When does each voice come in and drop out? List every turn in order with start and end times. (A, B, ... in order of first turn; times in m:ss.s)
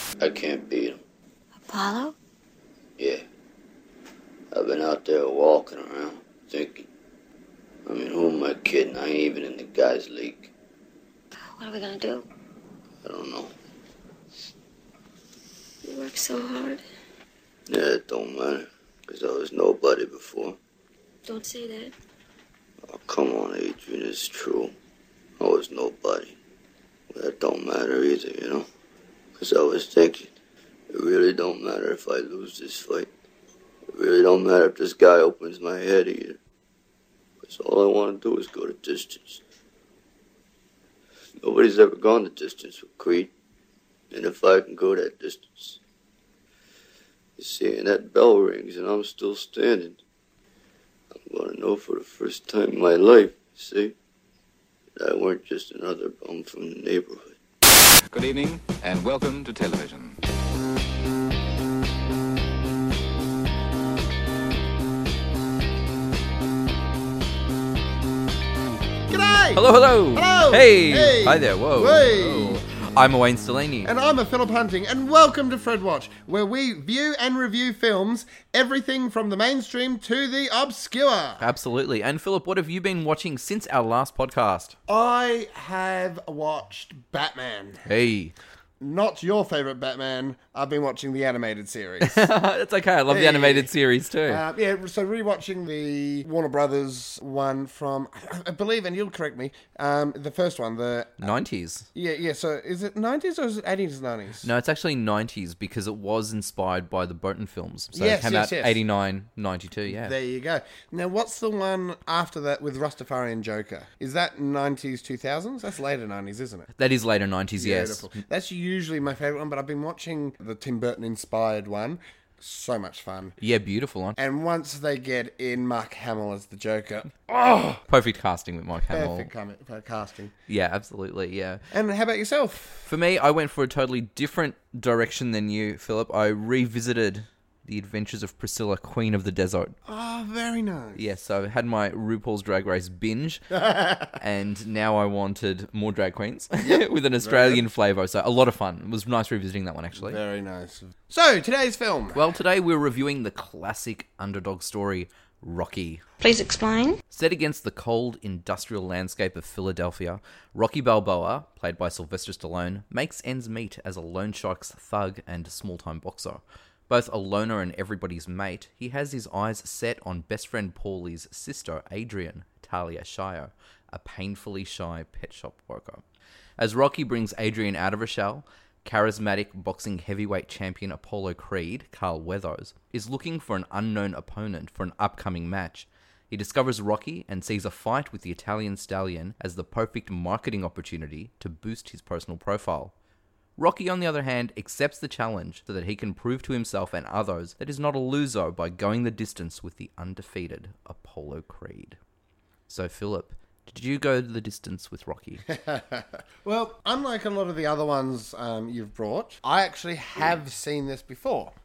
0:00.2-0:01.0 A
0:01.7-0:02.1 B
0:03.0-0:03.2 A
0:04.5-0:06.8 A
0:07.8-0:10.5 A
0:11.5-0:12.2 B
0:13.0-0:13.5 A
0:15.8-0:16.8 B
0:17.7-0:20.6 A
0:21.2-0:21.9 B
0:22.9-0:24.7 A
0:25.4-0:26.3 A
0:27.1-0:28.6 A
0:29.4-0:30.3 A
0:30.9-0:33.1 A
0:33.9-0:36.4 A
0:37.4-0:39.4 A
0:41.4-0:43.3 A
0:44.1-0:45.8 A
0:47.4-0:50.0 A
0:51.2-0:53.9 A
0:55.0-0:57.4 A
0:58.1-1:00.2 C
1:09.1-1:12.6 D
1:09.5-1:13.9 E
1:13.8-1:21.4 D
1:21.4-1:24.8 E
1:24.9-1:27.9 D
1:27.8-1:28.3 E
1:28.8-1:32.3 D
1:32.0-1:34.4 E
1:33.1-1:33.7 D
1:34.2-1:41.3 D
1:41.2-1:41.9 E
1:41.9-1:44.5 D
1:44.4-1:50.1 E
1:47.9-1:48.8 D
1:49.9-1:56.7 D
1:56.8-1:58.1 E
1:57.5-2:03.4 D
2:03.4-2:04.2 E
2:04.2-2:07.8 D
2:07.9-2:09.3 E
2:08.9-2:10.3 D
2:10.5-2:11.6 E
2:11.7-2:12.9 D
2:12.8-2:19.8 E
2:19.8-2:21.0 D
2:20.9-2:23.5 E
2:23.5-2:24.2 D
2:24.1-2:30.2 E
2:26.6-2:27.6 D
2:30.0-2:32.2 D
2:32.1-2:36.0 E
2:36.2-2:37.0 B
2:37.1-2:56.0 E
2:56.6-3:12.9 E
3:13.6-3:22.0 E
3:22.7-3:25.4 E
3:25.5-3:31.5 D